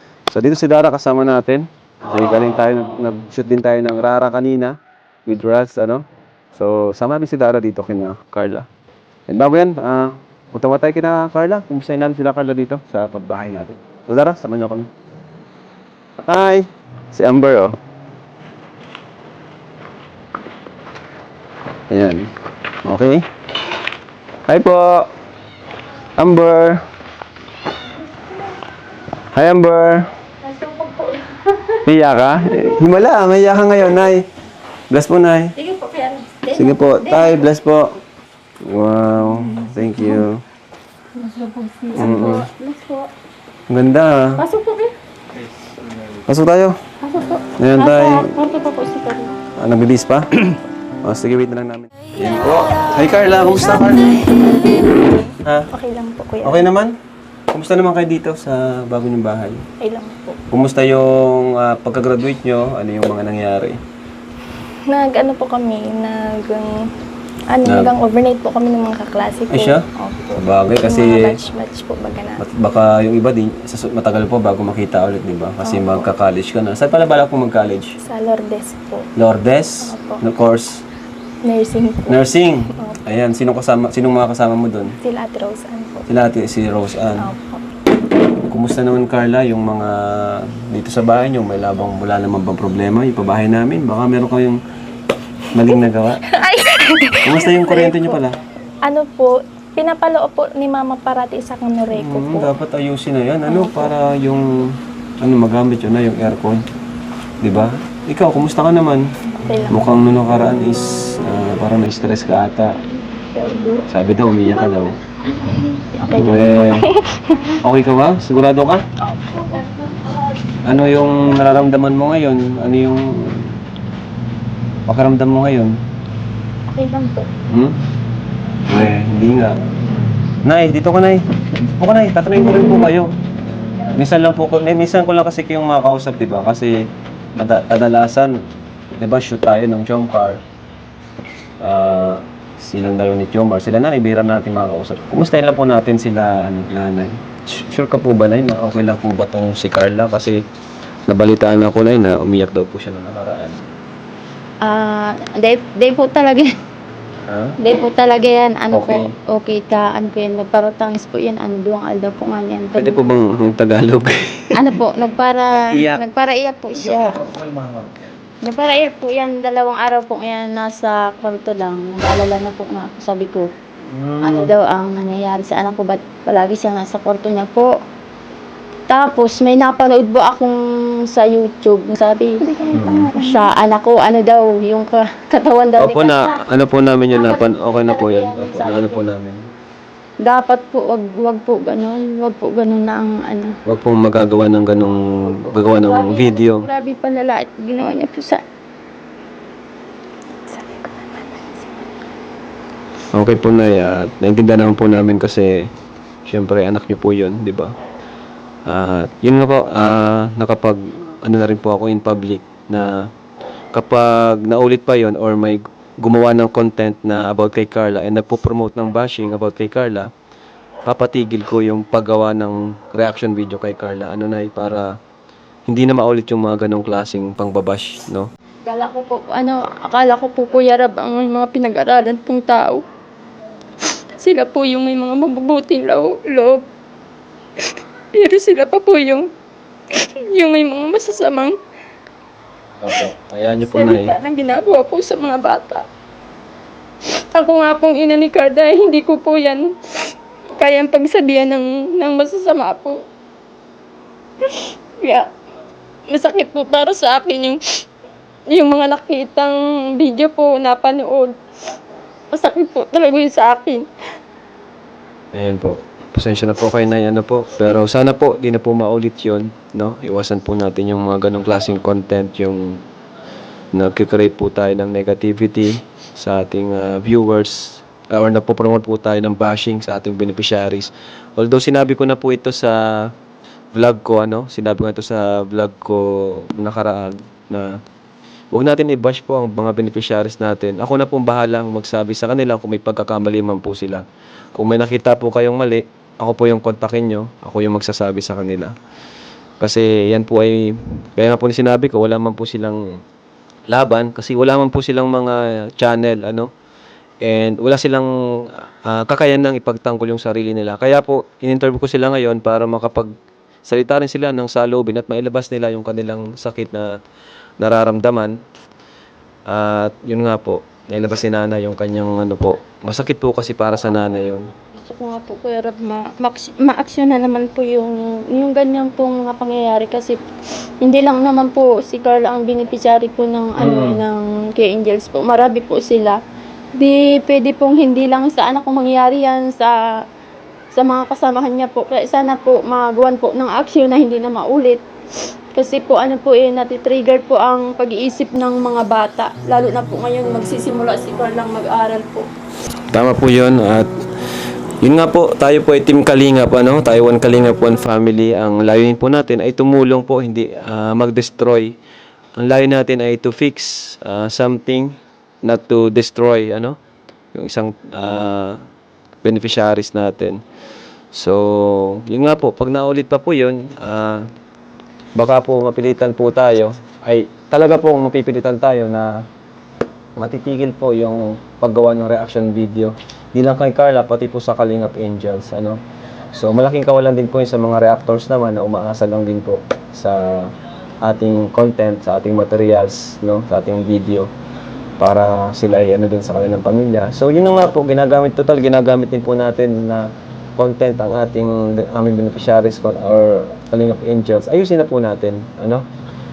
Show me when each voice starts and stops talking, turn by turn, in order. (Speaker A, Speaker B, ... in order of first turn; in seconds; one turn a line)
Speaker A: 0.3-6.0
Speaker A: 6.5-8.7
Speaker A: 9.3-14.9
Speaker A: 16.3-17.8
Speaker A: 21.9-22.3
Speaker A: 22.8-23.2
Speaker A: 24.5-25.1
Speaker A: 26.2-26.8
Speaker A: 29.3-30.1
Speaker B: 30.4-31.8
Speaker A: 31.8-34.2
Speaker A: 34.9-35.5
Speaker B: 35.5-37.4
Speaker A: 36.5-38.0
Speaker A: 38.6-40.4
Speaker B: 41.1-43.1
Speaker A: 42.0-42.5
Speaker A: 43.7-44.4
Speaker B: 44.4-44.9
Speaker A: 46.2-46.8
Speaker B: 47.0-49.4
Speaker A: 47.6-48.3
Speaker A: 49.5-54.3
Speaker C: 53.3-56.7
Speaker A: 55.4-55.7
Speaker A: 56.4-57.0
Speaker A: 57.5-59.6
Speaker C: 59.8-60.4
Speaker A: 60.5-63.8
Speaker C: 64.9-66.8
Speaker C: 67.5-72.4
Speaker A: 67.6-67.9
Speaker A: 69.5-69.8
Speaker A: 70.3-71.4
Speaker A: 72.4-78.0
Speaker C: 75.6-76.1
Speaker C: 78.0-79.1
Speaker A: 79.2-80.8
Speaker C: 79.8-80.2
Speaker C: 81.4-82.2
Speaker A: 82.1-84.9
Speaker C: 85.0-86.1
Speaker A: 86.1-87.3
Speaker C: 87.2-87.6
Speaker A: 88.5-94.6
Speaker A: 95.5-96.2
Speaker C: 96.3-98.2
Speaker A: 97.2-98.4
Speaker C: 98.8-102.5
Speaker A: 101.9-106.6
Speaker C: 103.5-103.9
Speaker A: 107.4-109.1
Speaker C: 109.5-109.9
Speaker A: 109.7-112.8
Speaker B: 113.4-113.8
Speaker A: 113.9-115.0
Speaker C: 116.0-117.4
Speaker A: 116.1-116.9
Speaker A: 117.6-118.8
Speaker B: 119.2-119.7
Speaker A: 120.6-123.5
Speaker A: 124.9-125.8
Speaker B: 126.7-127.3
Speaker A: 127.5-127.8
Speaker A: 128.7-129.6
Speaker A: 130.4-131.2
Speaker A: 131.8-133.1
Speaker A: 133.9-138.4
Speaker A: 138.9-140.4
Speaker A: 141.6-150.4
Speaker A: 151.1-153.6
Speaker B: 154.6-156.5
Speaker A: 157.3-157.6
Speaker B: 157.6-163.0
Speaker A: 158.7-159.1
Speaker A: 162.8-164.6
Speaker B: 164.5-167.3
Speaker A: 165.7-166.0
Speaker A: 167.4-167.8
Speaker B: 168.4-173.5
Speaker A: 173.9-174.5
Speaker B: 174.2-177.7
Speaker B: 178.9-180.5
Speaker B: 181.1-182.4
Speaker C: 182.4-183.5
Speaker A: 182.7-183.1
Speaker B: 183.1-186.3
Speaker A: 185.8-189.4
Speaker B: 187.1-189.0
Speaker B: 190.2-193.5
Speaker A: 193.7-196.7
Speaker B: 195.8-198.4
Speaker C: 200.5-201.8
Speaker A: 203.1-205.7
Speaker A: 206.2-207.7
Speaker A: 208.7-213.1
Speaker A: 213.7-220.1
Speaker A: 220.8-224.9
Speaker A: 225.7-228.3
Speaker B: 228.6-232.8
Speaker B: 234.2-236.6
Speaker B: 237.6-239.3
Speaker B: 239.9-241.6
Speaker A: 242.8-244.1
Speaker B: 243.7-245.8
Speaker B: 247.3-249.7
Speaker B: 250.6-253.0
Speaker B: 254.4-255.3
Speaker B: 256.1-257.6
Speaker B: 258.5-261.4
Speaker B: 262.3-263.9
Speaker A: 265.3-272.8
Speaker A: 273.7-283.1
Speaker A: 283.7-287.7
Speaker A: 288.5-298.7
Speaker A: 299.6-303.0
Speaker A: 303.7-306.5
Speaker A: 307.2-313.1
Speaker A: 313.6-317.0
Speaker A: 317.6-318.4
Speaker A: 319.5-324.5
Speaker B: 324.8-330.2
Speaker B: 330.8-336.2
Speaker A: 333.6-334.0
Speaker B: 336.8-339.8
Speaker B: 340.7-344.8
Speaker B: 345.5-352.3
Speaker A: 352.9-353.9
Speaker A: 354.8-361.8
Speaker A: 362.4-366.8
Speaker A: 367.3-368.6
Speaker A: 369.2-370.4
Speaker A: 371.1-374.2
Speaker A: 375.1-379.2
Speaker A: 380.1-385.8
Speaker A: 386.3-394.3
Speaker A: 395.0-405.8